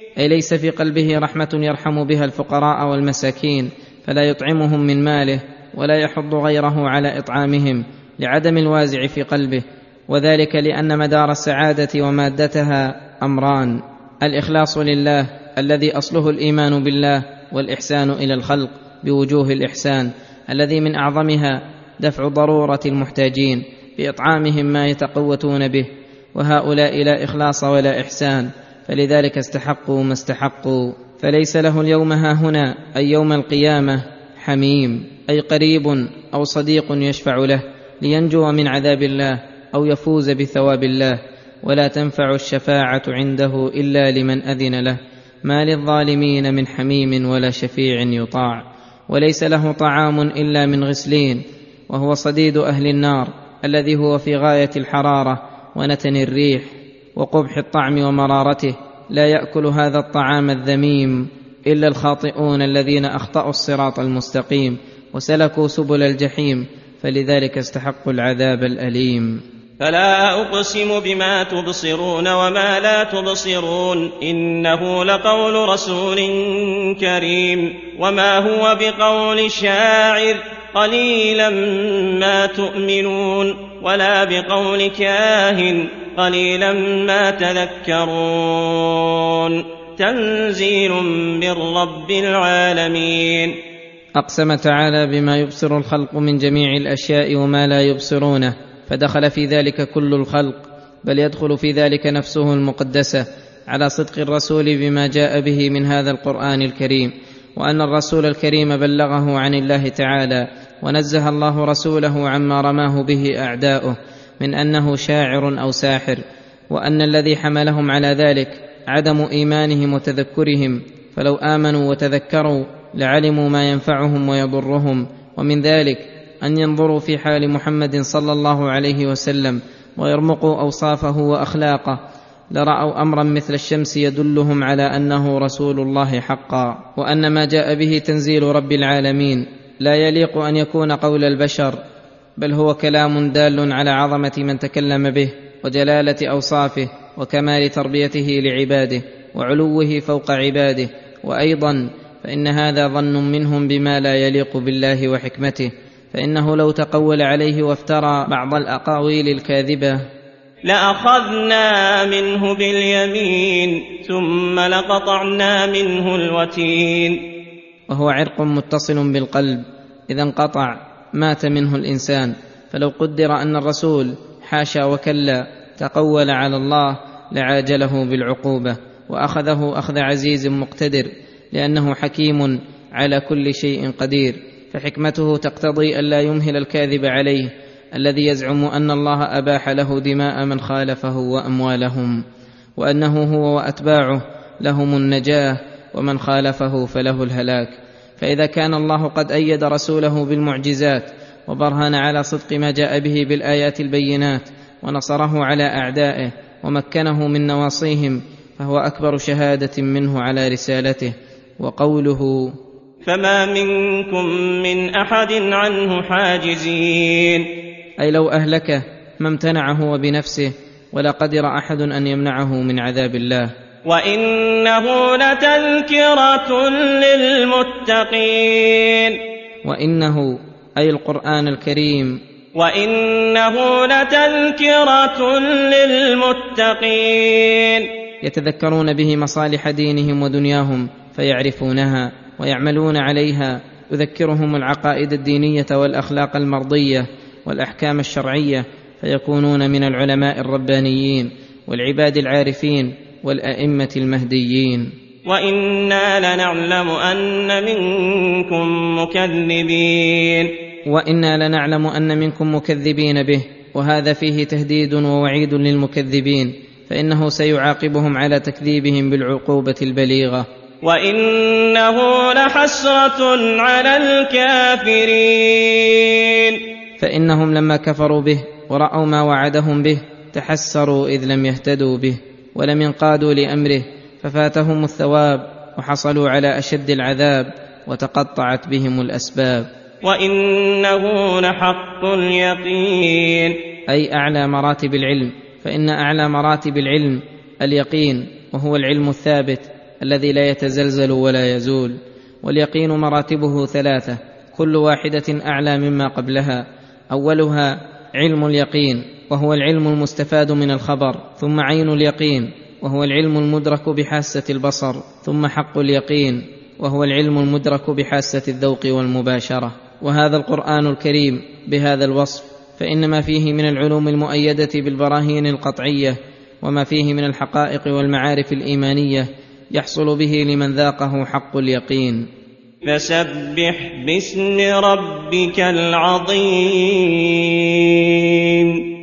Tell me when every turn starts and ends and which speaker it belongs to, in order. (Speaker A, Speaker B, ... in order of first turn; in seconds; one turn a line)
Speaker A: 0.2-69.4
Speaker B: 69.8-93.5
Speaker A: 94.2-132.0
Speaker A: 132.5-141.8
Speaker A: 142.4-160.0
Speaker B: 160.7-167.2
Speaker A: 167.9-192.2
Speaker A: 192.8-212.5
Speaker B: 213.1-217.5
Speaker A: 218.0-223.5
Speaker B: 223.9-229.2
Speaker A: 229.6-232.2
Speaker B: 232.6-237.9
Speaker A: 238.2-254.9
Speaker B: 255.3-260.5
Speaker A: 260.9-270.5
Speaker B: 270.8-276.6
Speaker A: 277.0-289.7
Speaker B: 290.1-293.6
Speaker A: 293.9-332.3
Speaker B: 332.9-338.8